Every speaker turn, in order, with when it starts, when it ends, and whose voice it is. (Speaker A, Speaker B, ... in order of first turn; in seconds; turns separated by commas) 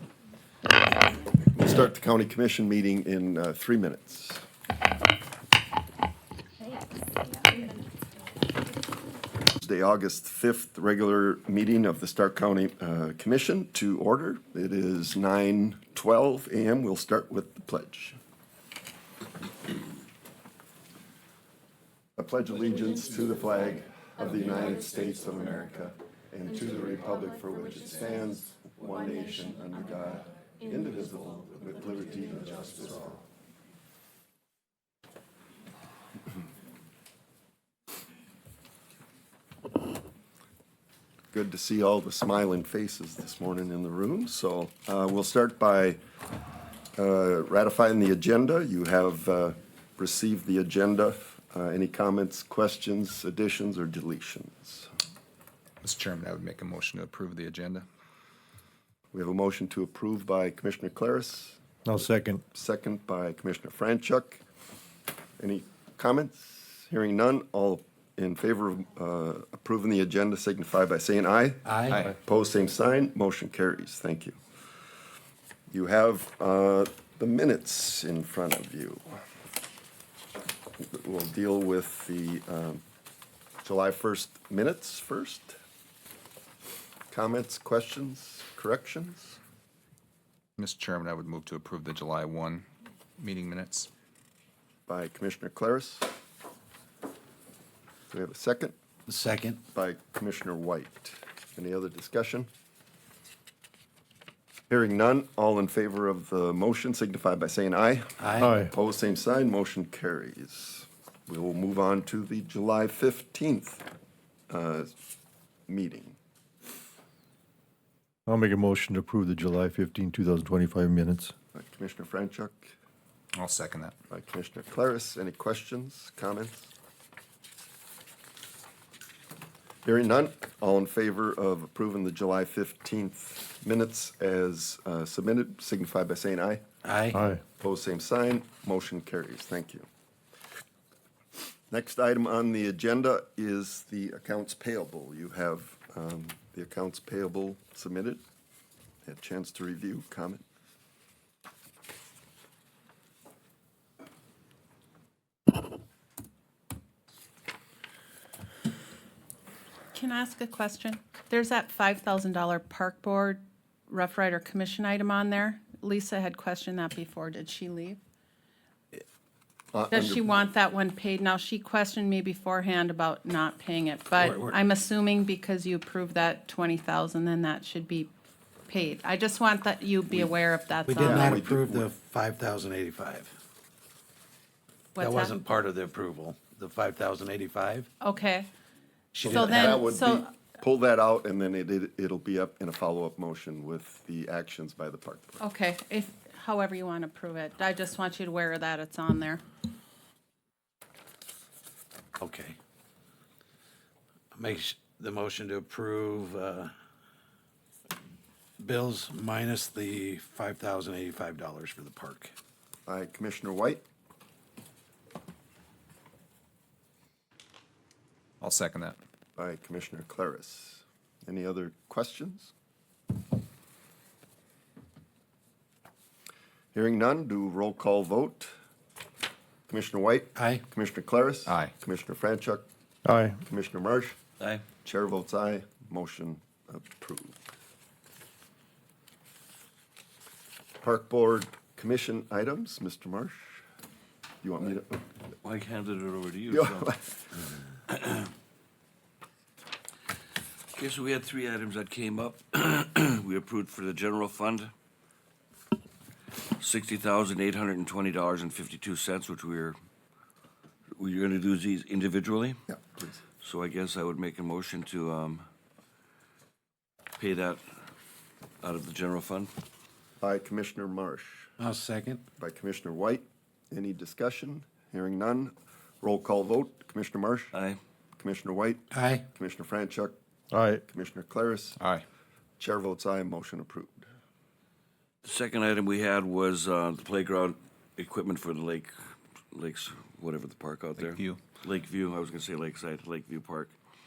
Speaker A: 1.4-4.4, Speaker A: 9.6-18.2, Speaker A: 22.2-33.2, Speaker A: 41.3-46.0, Speaker A: 47.0-54.9, Speaker B: 55.8-57.9, Speaker A: 59.1-61.6, Speaker C: 61.9-62.4, Speaker A: 62.5-64.4, Speaker A: 65.4-74.4, Speaker D: 71.6-72.0, Speaker A: 75.7-79.1, Speaker A: 80.8-82.8, Speaker A: 83.6-85.6, Speaker A: 87.1-89.4, Speaker B: 90.6-92.6, Speaker B: 93.2-93.9, Speaker A: 94.9-96.1, Speaker A: 98.1-98.7, Speaker D: 99.1-99.6, Speaker A: 99.7-102.5, Speaker A: 104.7-113.8, Speaker D: 108.2-108.5, Speaker C: 108.4-108.7, Speaker A: 114.5-114.9, Speaker A: 115.7-116.2, Speaker C: 118.3-121.3, Speaker A: 121.5-122.7, Speaker B: 123.3-123.9, Speaker A: 124.1-126.7, Speaker A: 129.8-136.6, Speaker D: 136.8-137.2, Speaker A: 137.6-139.8, Speaker A: 141.7-148.2, Speaker A: 149.0-150.4, Speaker E: 159.9-168.0, Speaker A: 169.7-170.4, Speaker E: 169.9-178.1, Speaker D: 174.2-174.6, Speaker E: 178.7-181.4, Speaker D: 180.8-183.3, Speaker A: 181.0-181.9, Speaker E: 184.9-185.3, Speaker D: 185.0-187.9, Speaker E: 188.0-188.5, Speaker D: 189.1-189.8, Speaker A: 189.2-195.4, Speaker E: 189.2-190.3, Speaker E: 195.4-199.4, Speaker D: 202.2-202.6, Speaker D: 204.3-206.7, Speaker D: 208.6-212.3, Speaker A: 212.8-213.8, Speaker B: 218.4-219.0, Speaker A: 219.3-222.5, Speaker A: 226.7-228.5, Speaker A: 229.7-232.6, Speaker D: 230.3-230.6, Speaker C: 233.1-233.4, Speaker A: 233.4-234.2, Speaker A: 234.8-237.5, Speaker A: 240.8-243.6, Speaker A: 244.4-245.0, Speaker F: 245.4-246.9, Speaker A: 246.5-247.2, Speaker F: 247.9-248.2, Speaker F: 250.7-254.7, Speaker F: 256.6-259.8, Speaker F: 260.9-262.6, Speaker A: 262.7-263.2, Speaker F: 263.4-265.4, Speaker F: 267.2-267.6, Speaker F: 268.6-269.5, Speaker A: 270.2-271.5, Speaker D: 271.6-272.2, Speaker A: 272.4-277.5, Speaker F: 277.5-277.8, Speaker A: 278.2-280.1, Speaker D: 278.9-279.2, Speaker C: 280.5-280.8, Speaker A: 280.9-281.8, Speaker B: 281.8-282.0, Speaker A: 282.6-284.1, Speaker F: 285.2-288.9, Speaker F: 289.5-293.7, Speaker B: 291.0-291.4